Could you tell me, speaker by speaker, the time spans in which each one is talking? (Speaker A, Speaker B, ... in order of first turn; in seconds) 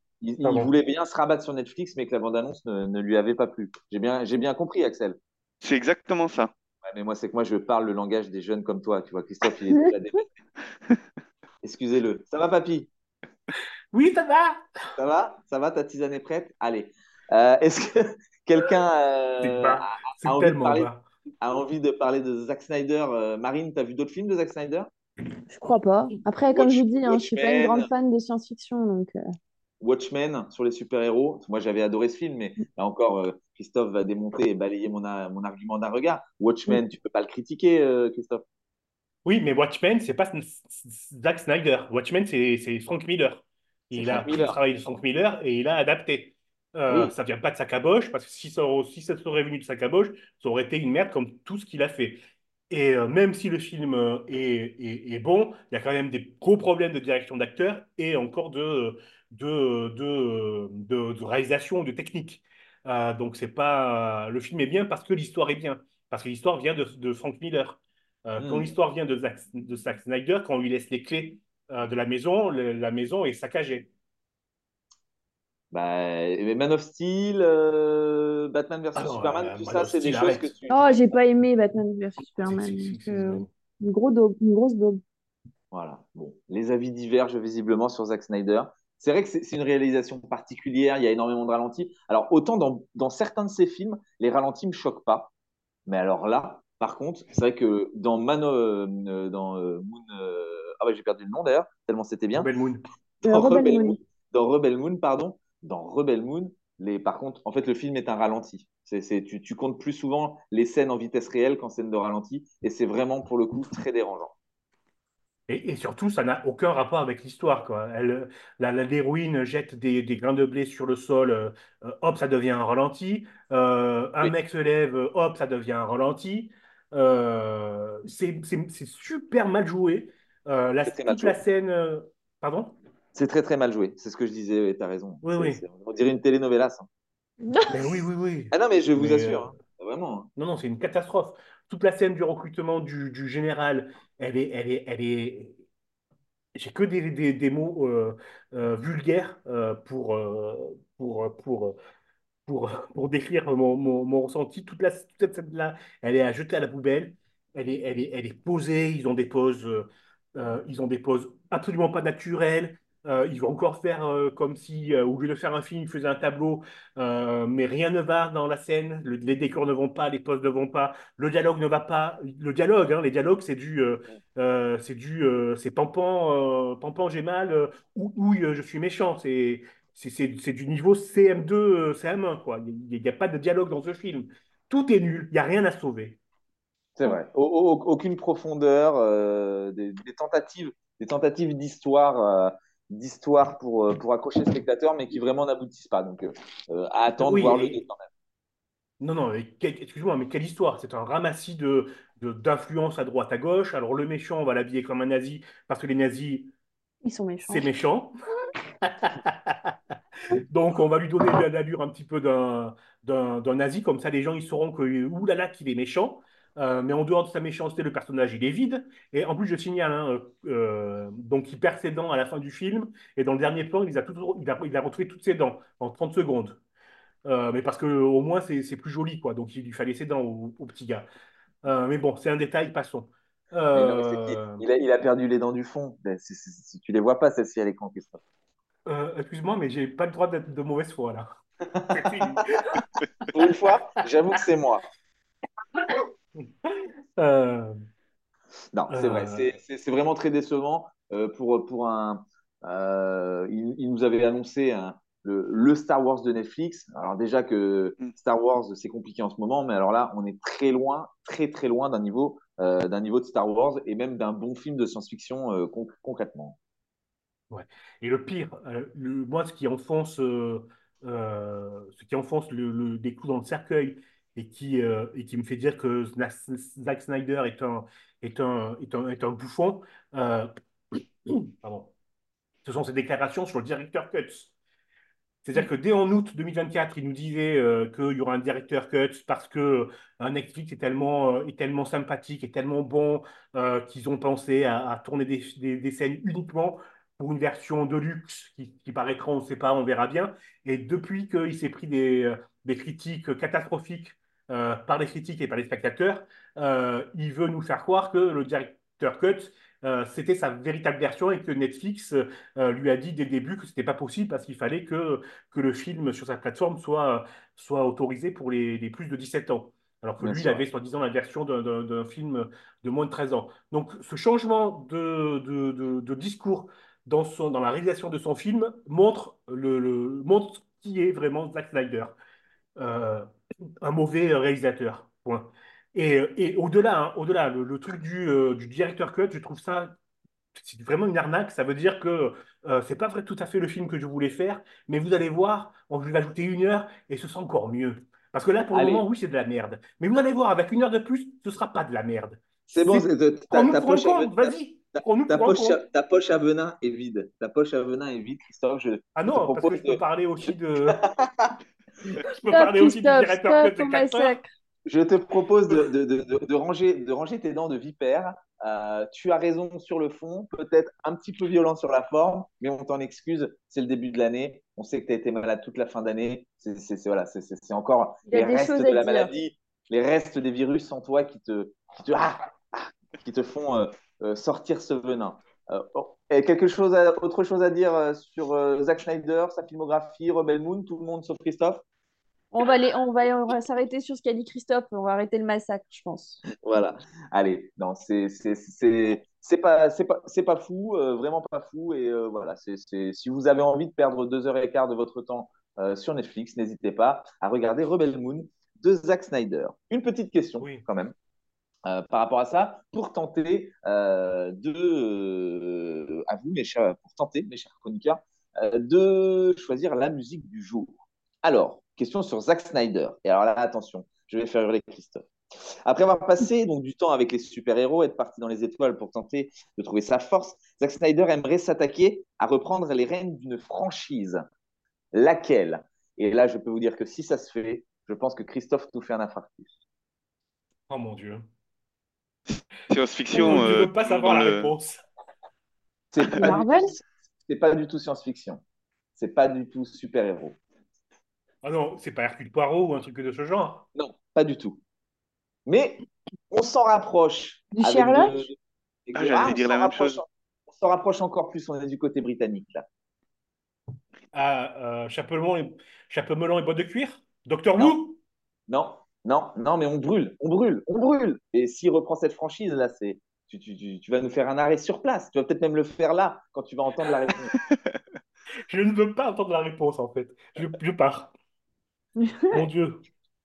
Speaker A: 0.2-5.2, 6.8-10.2, 11.6-12.9, 15.0-20.9, 21.4-24.9, 26.5-27.9, 29.8-38.4, 43.9-44.6, 46.9-47.1, 68.4-68.7, 75.7-81.1, 85.7-95.3, 95.9-102.5, 103.2-114.3, 130.8-131.4, 133.1-136.9, 138.5-140.3, 186.9-198.1, 233.7-238.2, 241.7-242.4, 243.3-244.8, 248.7-266.6, 320.2-320.6, 348.7-349.0, 352.7-361.5, 364.9-391.8, 396.5-411.1, 411.8-425.3, 425.8-434.4, 435.1-439.7, 446.1-448.6, 449.1-450.6, 453.9-454.8, 455.6-462.9, 468.7-477.5
Speaker B: 0.4-0.7, 13.9-14.6, 19.4-21.0, 39.2-73.9, 78.9-80.5, 82.4-83.5, 102.3-102.8, 115.5-132.8, 135.2-135.6, 137.7-139.5, 140.4-145.6, 146.5-151.8, 152.5-186.2, 197.2-197.8, 199.0-206.5, 207.4-208.1, 208.8-209.7, 210.3-226.6, 227.2-231.1, 231.6-234.6, 238.8-241.3, 241.9-242.8, 245.8-246.0, 246.6-247.8, 248.9-249.5, 267.5-281.9, 282.6-284.5, 285.4-332.2, 332.8-333.3, 333.8-339.9, 340.6-355.8, 359.1-361.0, 362.2-364.4, 440.9-441.5, 443.3-445.0, 451.6-453.9, 464.3-468.2, 478.7-481.3, 482.5-483.1
Speaker C: 5.6-6.5, 442.5-444.7, 459.1-460.2
Speaker D: 25.5-29.1, 80.7-85.0, 103.2-104.0, 137.4-137.7, 207.0-207.7, 362.5-364.5, 378.3-379.3, 392.5-396.4, 446.4-447.0, 457.8-458.5, 482.2-482.6